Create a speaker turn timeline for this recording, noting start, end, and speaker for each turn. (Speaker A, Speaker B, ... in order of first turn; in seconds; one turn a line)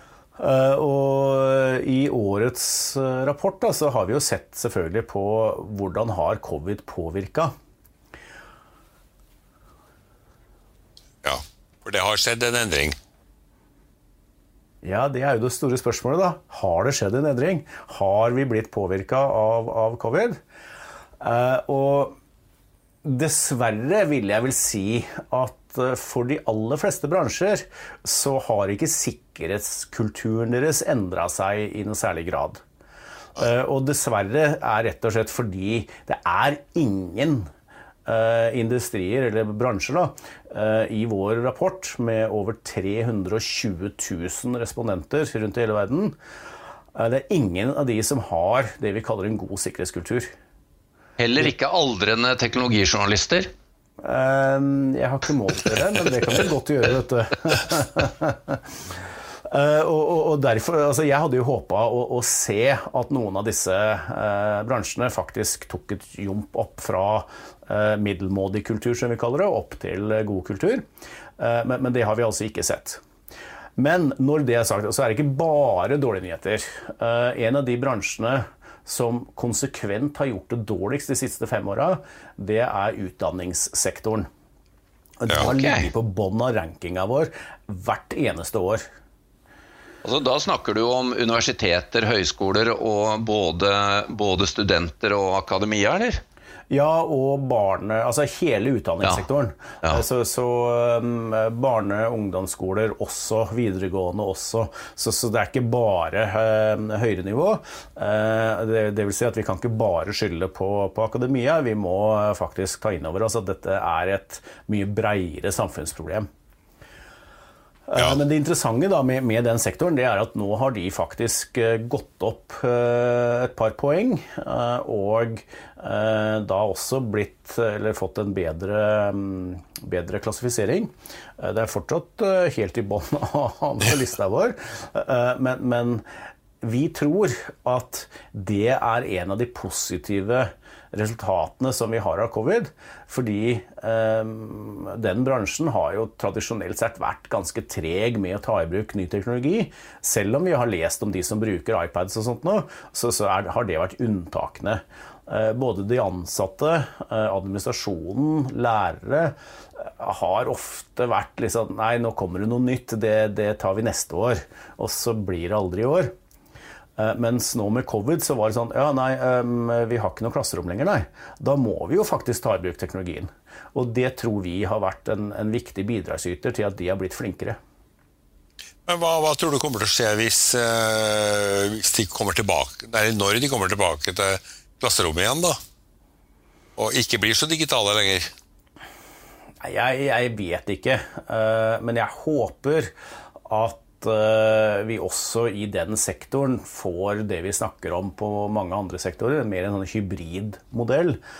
Speaker A: 0.4-7.5
Speaker B: 11.2-13.0
Speaker A: 14.8-20.4
Speaker A: 21.2-22.2
Speaker A: 23.0-32.6
Speaker A: 33.4-37.5
Speaker A: 38.0-46.1
Speaker A: 46.9-50.3
Speaker C: 51.2-53.5
Speaker A: 54.0-58.6
Speaker A: 59.5-70.8
Speaker A: 71.4-73.0
Speaker A: 73.8-84.3
Speaker A: 85.2-88.8
Speaker C: 85.3-85.9
Speaker C: 90.0-96.2
Speaker A: 96.7-116.3
Speaker A: 117.9-136.0
Speaker A: 136.6-166.1
Speaker A: 167.0-177.6
Speaker B: 178.8-185.6
Speaker B: 186.8-188.3
Speaker A: 189.6-192.9
Speaker A: 193.5-201.2